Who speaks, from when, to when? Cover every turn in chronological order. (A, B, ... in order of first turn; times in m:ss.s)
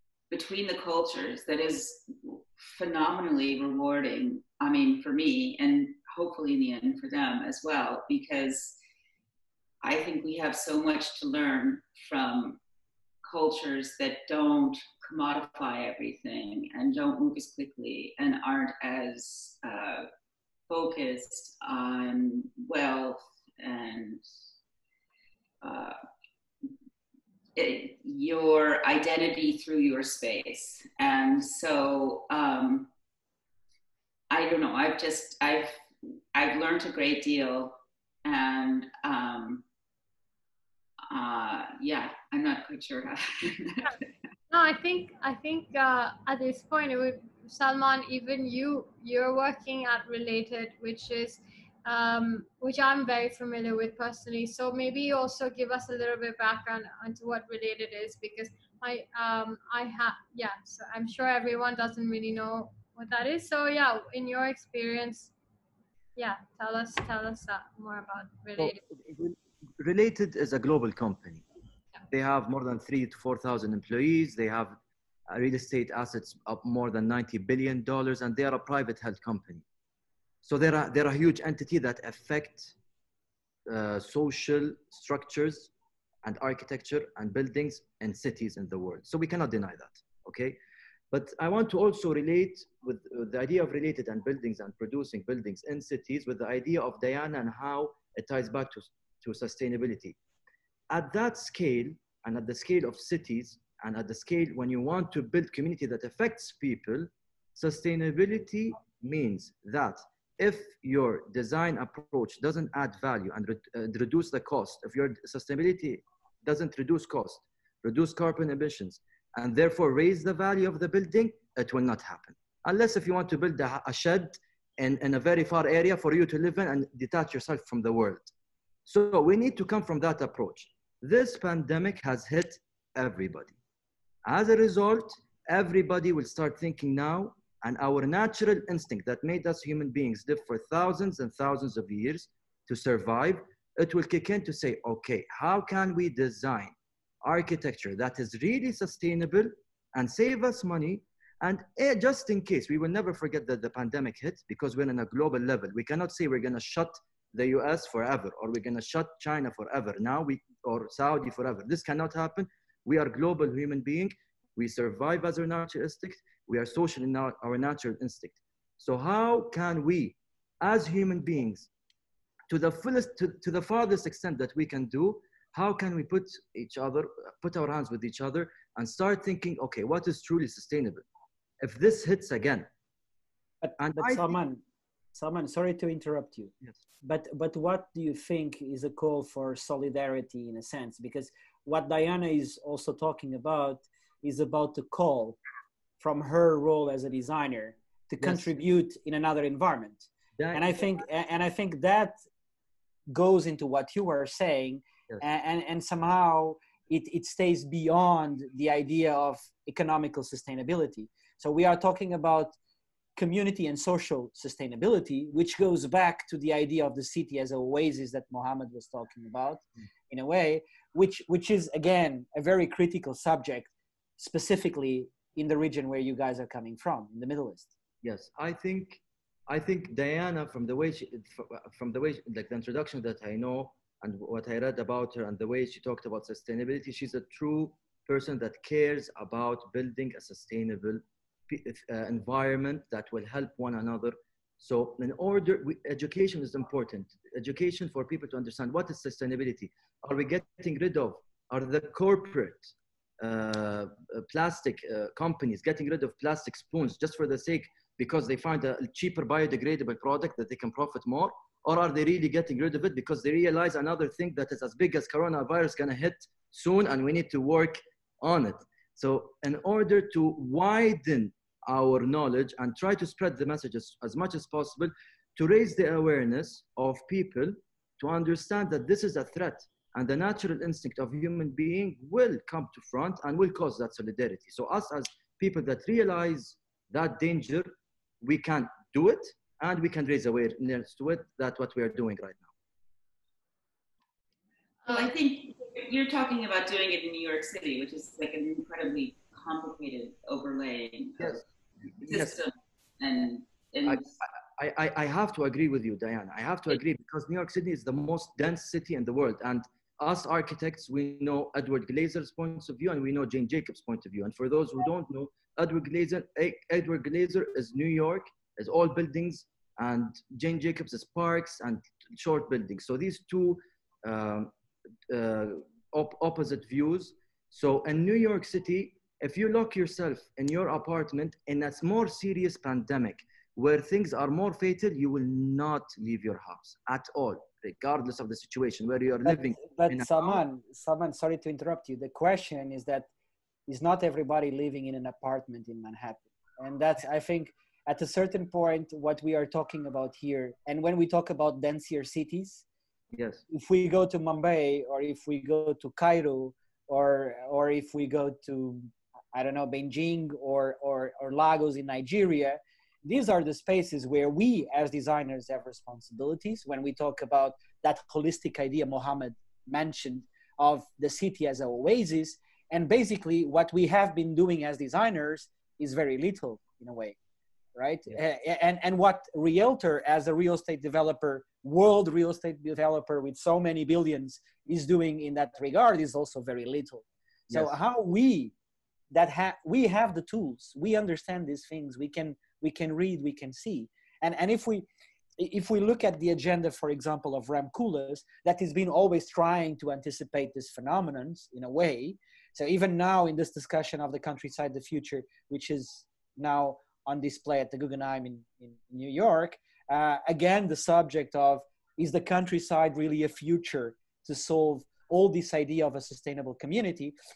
0:00.3-0:08.8 A
0:09.8-0:12.6 A
0:13.2-0:20.1 A
0:20.7-0:24.2 A
0:25.6-0:25.9 A
0:27.6-0:32.9 A
0:34.3-0:35.8 A
0:36.3-0:39.6 A
0:41.1-0:44.0 A
0:44.5-1:05.3 B
1:06.2-1:08.8 B
1:08.6-1:11.4 C
1:12.1-1:14.8 C
1:15.3-1:19.6 C
1:20.4-1:22.8 C
1:23.7-1:25.7 C
1:26.2-1:30.6 C
1:31.1-1:40.2 C
1:40.9-2:08.3 C
2:08.9-2:13.6 C
2:14.2-2:51.7 C
2:52.5-3:01.0 C
3:01.6-3:02.7 C
3:03.6-3:04.6 D
3:03.8-3:04.4 C
3:05.1-3:15.4 D
3:16.0-3:22.2 D
3:18.2-3:18.5 C
3:20.4-3:20.9 C
3:23.1-3:32.6 D
3:33.2-3:47.7 D
3:48.0-4:47.7 C
4:48.2-4:52.5 C
4:54.8-4:55.1 B
4:54.9-5:01.4 A
5:02.0-5:02.4 C
5:02.1-5:04.2 A
5:03.8-5:24.5 C
5:25.1-5:40.4 C
5:39.2-5:43.1 D
5:43.7-5:52.6 D
5:53.1-5:53.4 C
5:53.5-6:17.2 D
6:17.8-6:28.5 D
6:29.1-6:57.2 D